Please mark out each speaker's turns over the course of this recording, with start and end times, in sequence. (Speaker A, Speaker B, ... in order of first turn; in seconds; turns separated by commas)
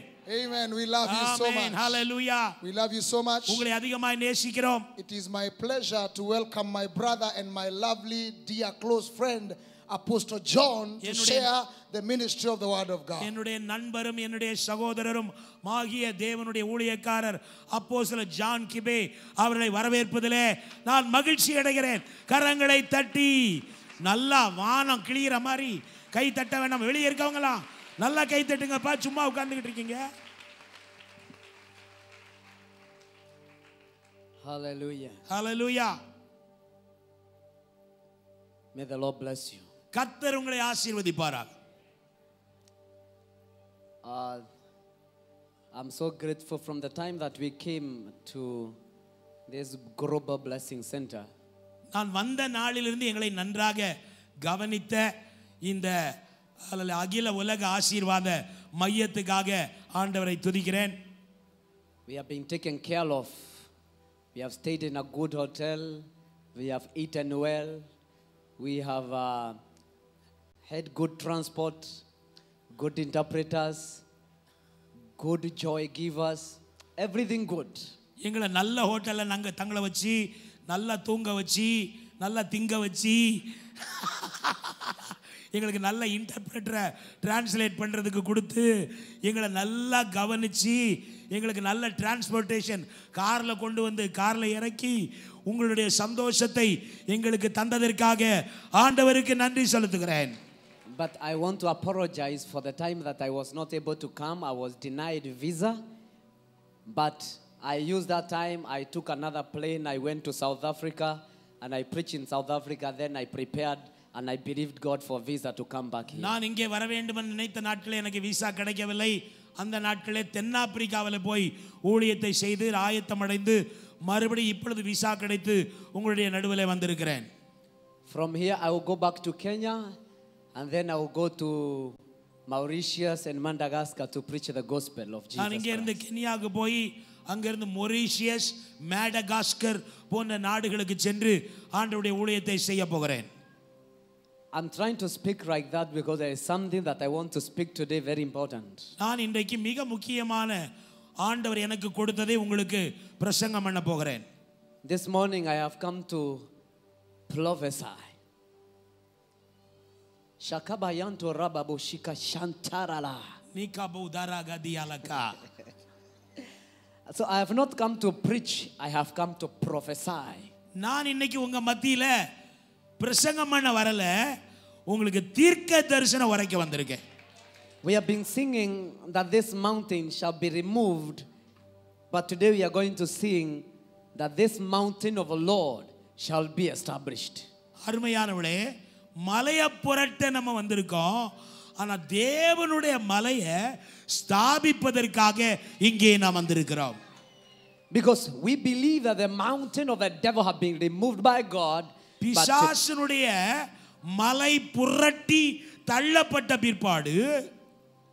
Speaker A: 0.3-2.0, Speaker B: 1.1-2.5, Speaker A: 2.6-3.6, Speaker B: 3.5-4.9, Speaker A: 5.0-13.3, Speaker B: 11.0-11.5, Speaker B: 13.2-23.3, Speaker B: 24.0-30.0, Speaker C: 34.4-35.2, Speaker B: 35.3-35.9, Speaker C: 38.7-39.6, Speaker B: 39.9-41.5, Speaker C: 44.0-44.5, Speaker C: 45.7-48.8, Speaker C: 49.5-51.3, Speaker B: 51.9-53.9, Speaker B: 54.4-55.0, Speaker B: 55.7-55.9, Speaker B: 56.7-60.9, Speaker C: 62.1-63.5, Speaker C: 64.3-67.8, Speaker C: 68.6-69.6, Speaker C: 70.7-72.0, Speaker C: 72.7-74.0, Speaker C: 75.2-77.8, Speaker B: 78.2-80.2, Speaker B: 80.7-83.2, Speaker B: 83.8-85.0, Speaker B: 85.5-88.7, Speaker B: 89.2-90.8, Speaker B: 91.3-94.9, Speaker B: 95.5-100.3, Speaker C: 100.9-105.8, Speaker C: 106.8-116.3, Speaker B: 116.1-127.3, Speaker C: 128.1-129.9, Speaker C: 130.5-135.9, Speaker B: 135.4-143.3, Speaker C: 144.5-148.9, Speaker B: 149.0-150.6, Speaker B: 151.2-154.2, Speaker C: 154.8-156.5, Speaker C: 157.3-158.1, Speaker C: 160.4-163.3, Speaker B: 163.5-165.3, Speaker C: 167.1-170.5, Speaker B: 170.8-172.1, Speaker B: 173.0-174.1, Speaker B: 174.9-177.0, Speaker C: 177.8-181.2, Speaker C: 182.1-187.4, Speaker B: 187.8-188.6, Speaker B: 189.2-193.6, Speaker B: 194.1-197.0, Speaker C: 197.9-202.7, Speaker B: 202.2-203.3, Speaker B: 204.2-207.2